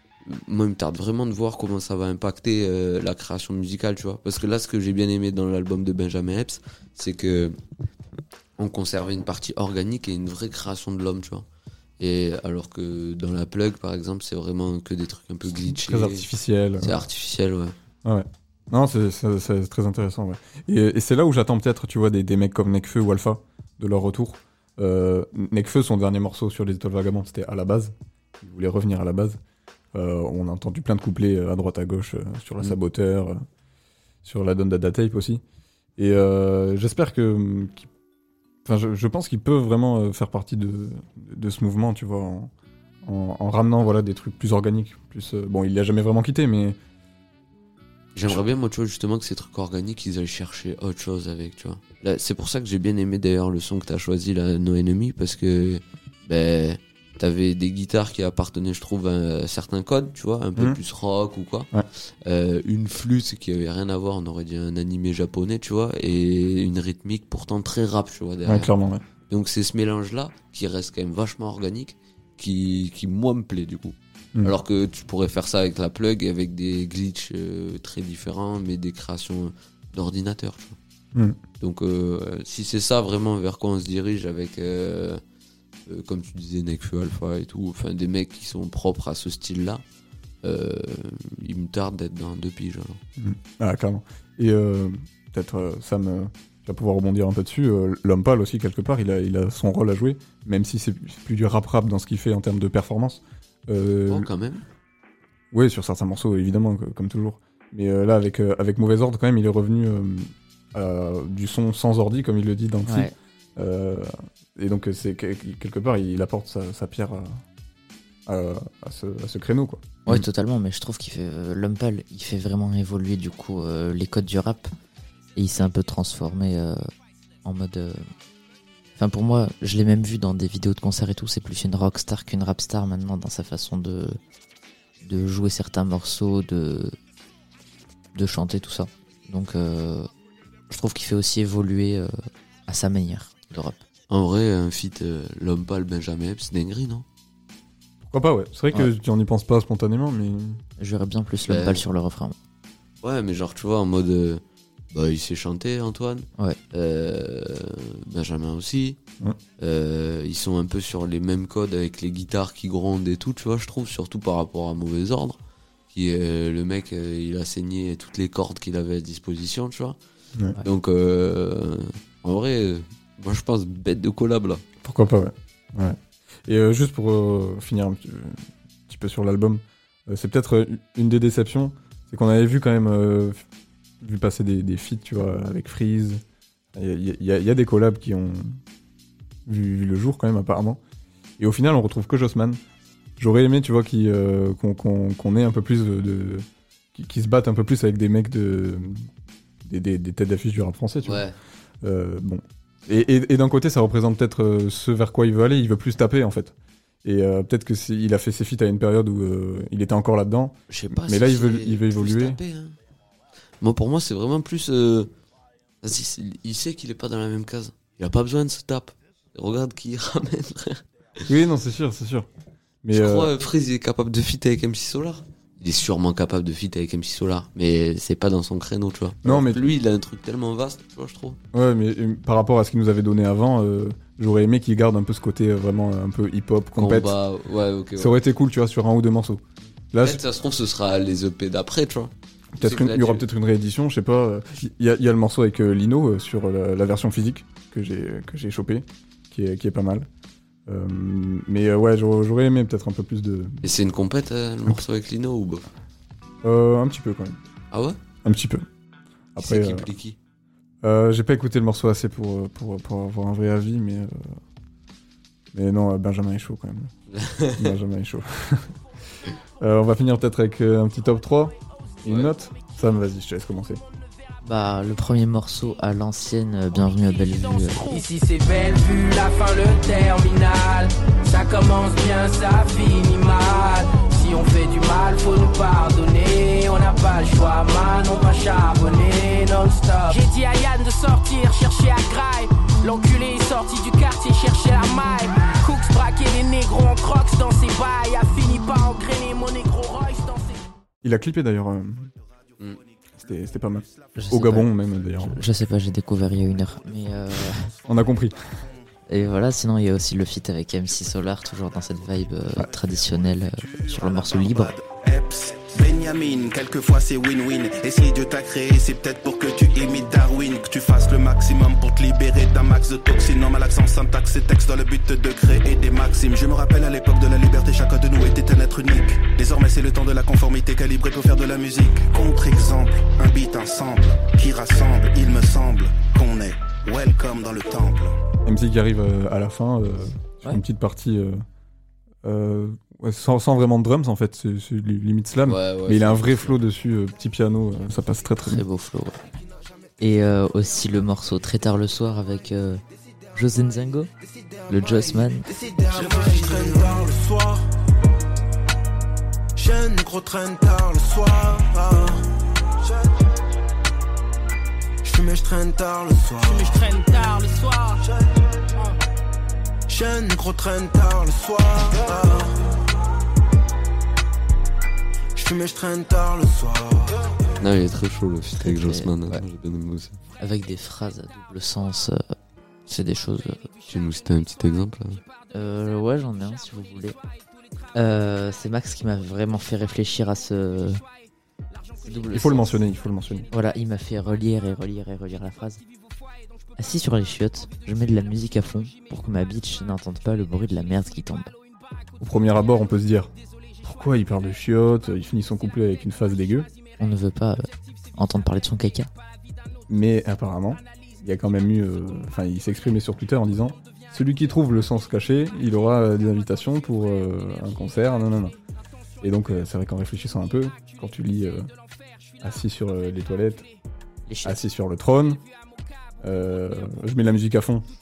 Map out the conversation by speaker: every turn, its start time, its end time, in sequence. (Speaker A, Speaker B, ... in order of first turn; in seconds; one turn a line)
Speaker A: 0.2-7.6
Speaker A: 8.6-11.4
Speaker A: 12.0-16.3
Speaker B: 15.6-17.0
Speaker A: 16.8-17.8
Speaker B: 18.1-29.4
Speaker B: 29.9-33.5
Speaker B: 34.2-35.4
Speaker B: 36.0-37.9
Speaker B: 38.6-42.5
Speaker B: 43.0-46.8
Speaker A: 48.1-61.7
Speaker A: 62.2-68.7
Speaker B: 68.5-69.0
Speaker A: 69.3-80.8
Speaker A: 81.6-85.2
Speaker A: 85.9-89.8
Speaker A: 90.4-93.0
Speaker B: 93.2-104.3
Speaker A: 104.1-104.6
Speaker B: 105.5-117.4
Speaker C: 112.9-113.1
Speaker B: 118.3-120.2
Speaker C: 120.1-124.7
Speaker C: 125.4-126.8
Speaker C: 127.4-128.1
Speaker C: 129.0-134.2
Speaker C: 135.0-137.0
Speaker C: 138.2-140.1
Speaker C: 140.7-143.8
Speaker A: 144.1-147.1
Speaker B: 148.1-150.6
Speaker C: 150.8-152.4
Speaker A: 151.5-151.8
Speaker A: 153.0-159.0
Speaker A: 159.6-165.4
Speaker A: 165.9-170.0
Speaker A: 170.6-174.6
Speaker B: 174.8-183.4
Speaker B: 184.0-186.2
Speaker B: 186.8-188.6
Speaker B: 189.5-190.8
Speaker B: 191.4-192.6
Speaker B: 193.2-199.1
Speaker B: 199.7-201.3
Speaker A: 201.0-201.4
Speaker B: 201.8-212.4
Speaker A: 210.7-212.8
Speaker A: 213.6-215.1
Speaker A: 215.8-220.8
Speaker B: 221.2-222.3
Speaker B: 222.8-223.3
Speaker A: 222.9-231.4
Speaker B: 229.2-229.6
Speaker B: 231.5-237.1
Speaker A: 236.8-238.2
Speaker B: 238.0-240.2
Speaker A: 239.9-243.2
Speaker B: 242.6-250.1
Speaker B: 250.7-253.6
Speaker A: 253.6-255.7
Speaker B: 256.4-257.4
Speaker A: 257.7-258.0
Speaker B: 258.2-258.7
Speaker B: 259.4-259.9
Speaker A: 259.4-260.2
Speaker B: 260.8-264.4
Speaker B: 265.5-266.9
Speaker A: 267.1-267.8
Speaker B: 267.6-268.8
Speaker B: 269.6-273.8
Speaker A: 272.1-272.3
Speaker C: 274.4-278.0
Speaker D: 277.7-300.6
Speaker B: 301.0-302.1
Speaker B: 303.1-305.4
Speaker C: 304.2-307.7
Speaker B: 307.9-308.6
Speaker C: 309.1-314.8
Speaker E: 314.2-338.1
Speaker B: 338.4-341.4
Speaker B: 342.2-348.6
Speaker A: 345.5-346.6
Speaker C: 348.5-349.2
Speaker C: 350.0-352.8
Speaker C: 353.3-354.1
Speaker C: 354.7-355.5
Speaker E: 355.5-357.6
Speaker E: 359.6-362.3
Speaker E: 365.1-366.9
Speaker D: 366.4-368.0
Speaker E: 369.9-372.5
Speaker E: 375.4-377.2
Speaker A: 377.6-380.2
Speaker C: 378.6-379.4
Speaker C: 380.4-382.4
Speaker C: 382.9-383.6
Speaker A: 383.9-385.2
Speaker C: 385.5-387.2
Speaker C: 387.9-391.0
Speaker A: 392.1-392.7
Speaker B: 392.3-393.5
Speaker C: 393.5-395.8
Speaker C: 396.8-401.5
Speaker B: 402.2-403.3
Speaker B: 403.8-406.7
Speaker C: 407.0-409.1
Speaker B: 409.9-418.6
Speaker B: 419.2-421.7
Speaker B: 422.4-423.7
Speaker C: 424.3-424.6
Speaker B: 424.4-425.4
Speaker B: 426.2-427.9